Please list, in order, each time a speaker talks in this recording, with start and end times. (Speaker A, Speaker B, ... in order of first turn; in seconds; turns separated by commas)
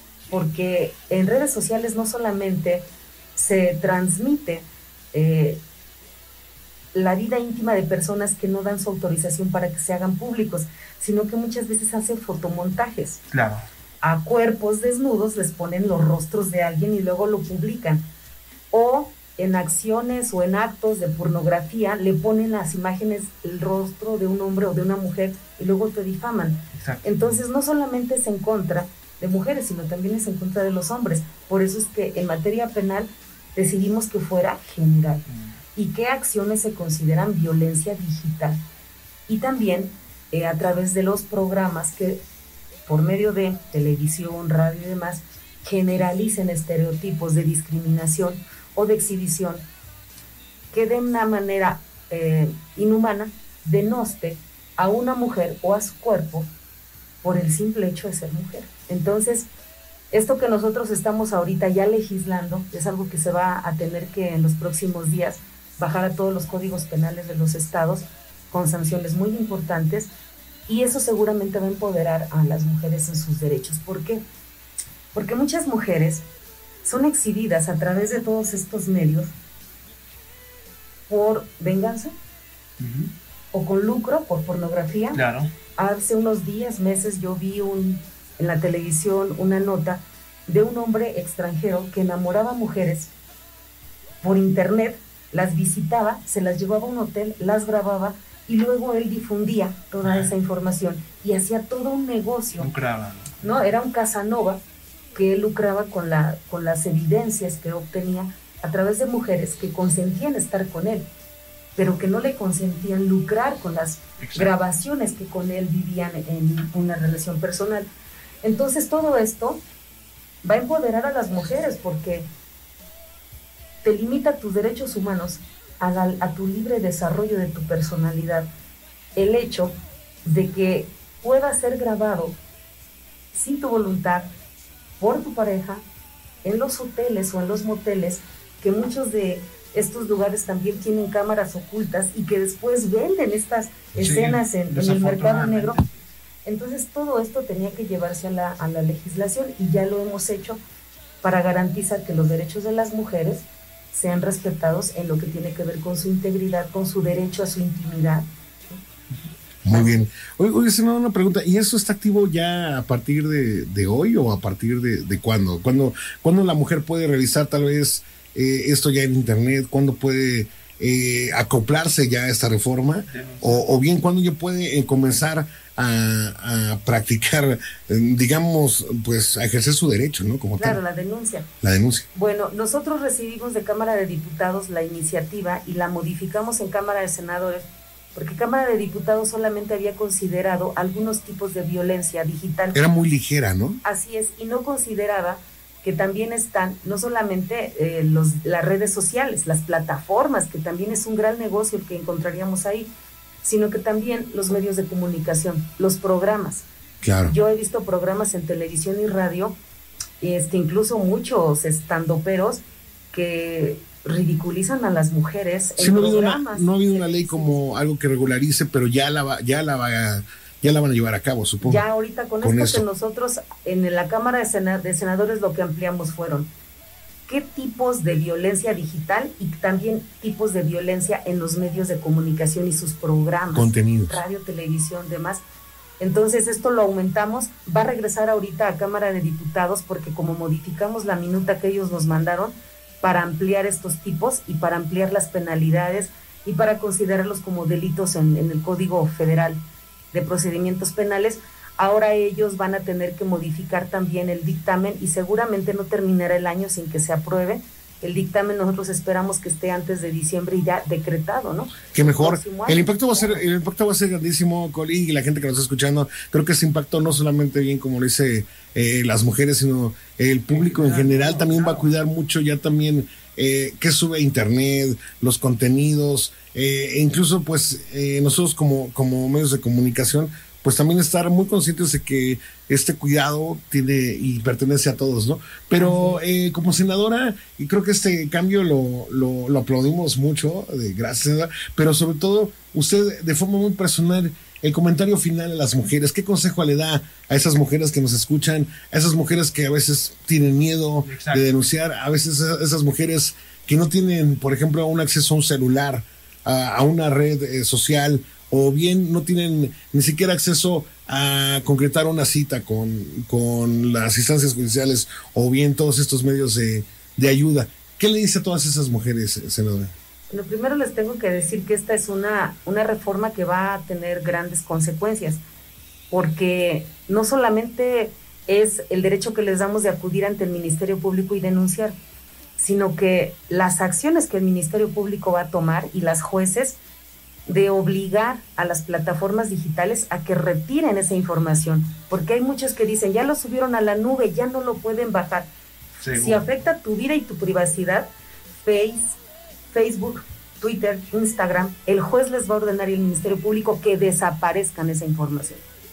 Speaker A: 0.3-5.6, Speaker A: 6.9-13.2, Speaker B: 13.3-13.7, Speaker A: 14.0-18.0, Speaker A: 18.7-38.6, Speaker B: 26.8-27.4, Speaker B: 35.3-35.5, Speaker A: 39.3-42.2, Speaker A: 42.9-49.6, Speaker A: 50.7-56.5, Speaker A: 57.2-59.5, Speaker A: 60.1-70.1, Speaker A: 70.7-74.2, Speaker A: 75.1-76.2, Speaker A: 76.8-79.3, Speaker A: 81.1-82.1, Speaker B: 82.8-83.1, Speaker A: 83.5-85.2, Speaker B: 85.1-85.5, Speaker A: 85.8-93.1, Speaker A: 94.2-102.7, Speaker B: 100.0-100.3, Speaker B: 102.6-103.5, Speaker A: 103.4-104.6, Speaker A: 105.1-111.1, Speaker A: 111.8-117.9, Speaker B: 114.2-114.5, Speaker A: 118.4-119.6, Speaker A: 120.4-122.2, Speaker A: 123.8-128.5, Speaker A: 129.2-132.4, Speaker A: 133.3-134.3, Speaker A: 135.0-135.8, Speaker A: 136.4-145.8, Speaker B: 143.9-146.1, Speaker A: 146.4-150.6, Speaker A: 151.2-158.2, Speaker C: 159.6-180.8, Speaker B: 173.1-173.6, Speaker A: 180.6-181.5, Speaker C: 181.6-182.1, Speaker A: 182.1-192.8, Speaker C: 192.7-193.8, Speaker A: 193.8-202.9, Speaker A: 203.4-206.6, Speaker C: 207.0-207.3, Speaker A: 207.2-209.6, Speaker A: 210.2-212.6, Speaker A: 213.1-217.6, Speaker C: 215.8-221.8, Speaker A: 221.6-226.5, Speaker C: 222.4-222.8, Speaker A: 227.3-235.4, Speaker C: 233.5-234.2, Speaker A: 236.0-249.6, Speaker A: 250.1-263.4, Speaker C: 261.9-319.9, Speaker B: 270.5-271.9, Speaker A: 285.8-286.2, Speaker B: 301.0-301.5, Speaker A: 320.3-325.4, Speaker A: 326.1-331.9, Speaker A: 332.6-336.8, Speaker A: 337.4-345.5, Speaker B: 346.0-346.5, Speaker A: 346.1-348.1, Speaker A: 348.6-349.2, Speaker A: 349.7-355.6